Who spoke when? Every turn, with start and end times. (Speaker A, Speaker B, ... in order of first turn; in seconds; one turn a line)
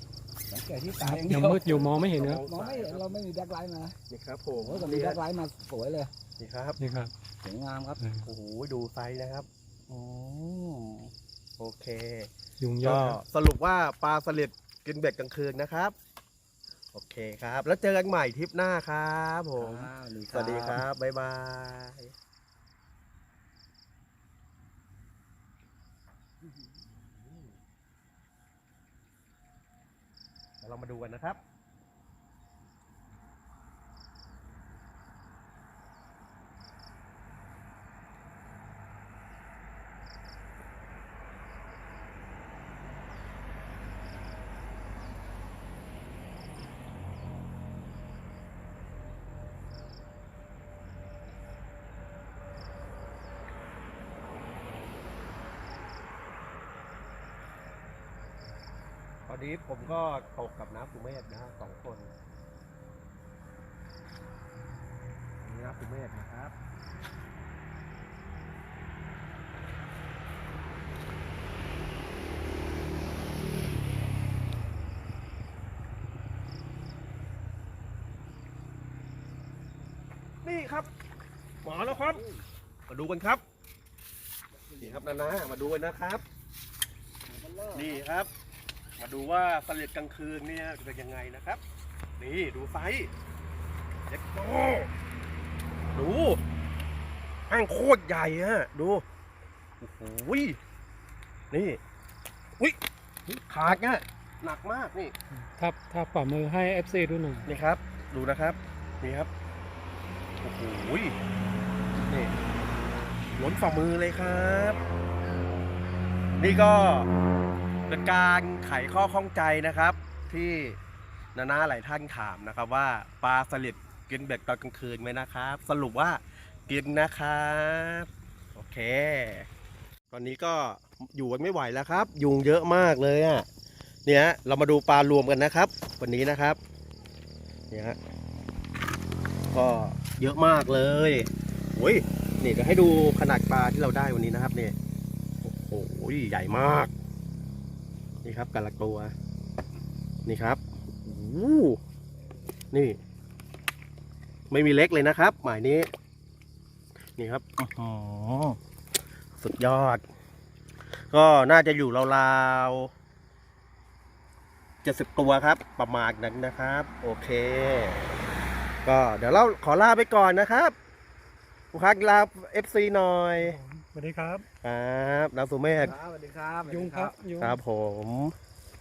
Speaker A: 0.5-4.0
Speaker B: 1.0-2.4
Speaker C: 1.3-3.1
Speaker C: 4.1-5.2
Speaker A: 4.5-6.1
Speaker C: 6.4-6.8
Speaker B: 6.8-7.1
Speaker A: 7.4-8.0
Speaker B: 8.0-8.3
Speaker C: 8.2-9.5
Speaker A: 9.9-11.1
Speaker C: 11.6-12.3
Speaker B: 12.6-13.2
Speaker C: 12.8-15.9
Speaker C: 16.9-22.1
Speaker A: 19.6-20.8
Speaker C: 26.9-27.5
Speaker C: 30.6-31.4
Speaker C: 59.3-62.1
Speaker C: 65.4-66.5
Speaker C: 80.4-80.9
Speaker C: 81.6-82.2
Speaker A: 81.8-82.4
Speaker C: 82.9-83.4
Speaker A: 84.6-85.0
Speaker C: 84.8-86.2
Speaker A: 87.2-88.0
Speaker C: 87.7-88.3
Speaker C: 89.0-91.6
Speaker C: 92.2-93.1
Speaker C: 94.1-94.9
Speaker C: 95.9-96.4
Speaker C: 97.5-99.0
Speaker C: 99.8-100.6
Speaker C: 101.5-101.8
Speaker C: 103.3-105.1
Speaker B: 105.5-107.5
Speaker C: 107.5-109.3
Speaker C: 110.4-111.1
Speaker C: 112.0-112.3
Speaker C: 113.3-114.8
Speaker C: 116.4-117.1
Speaker C: 117.9-120.8
Speaker C: 121.3-129.5
Speaker C: 130.1-133.4
Speaker C: 134.1-136.6
Speaker C: 137.7-138.0
Speaker C: 139.5-144.7
Speaker C: 145.4-146.9
Speaker C: 148.2-149.1
Speaker C: 150.2-151.8
Speaker C: 152.7-153.0
Speaker C: 154.5-155.9
Speaker C: 157.2-158.6
Speaker C: 159.4-160.0
Speaker C: 161.1-162.9
Speaker C: 164.8-168.1
Speaker C: 168.8-170.7
Speaker C: 171.7-173.6
Speaker B: 173.4-174.4
Speaker C: 174.6-175.9
Speaker A: 175.8-177.2
Speaker B: 176.7-177.6
Speaker C: 177.4-178.3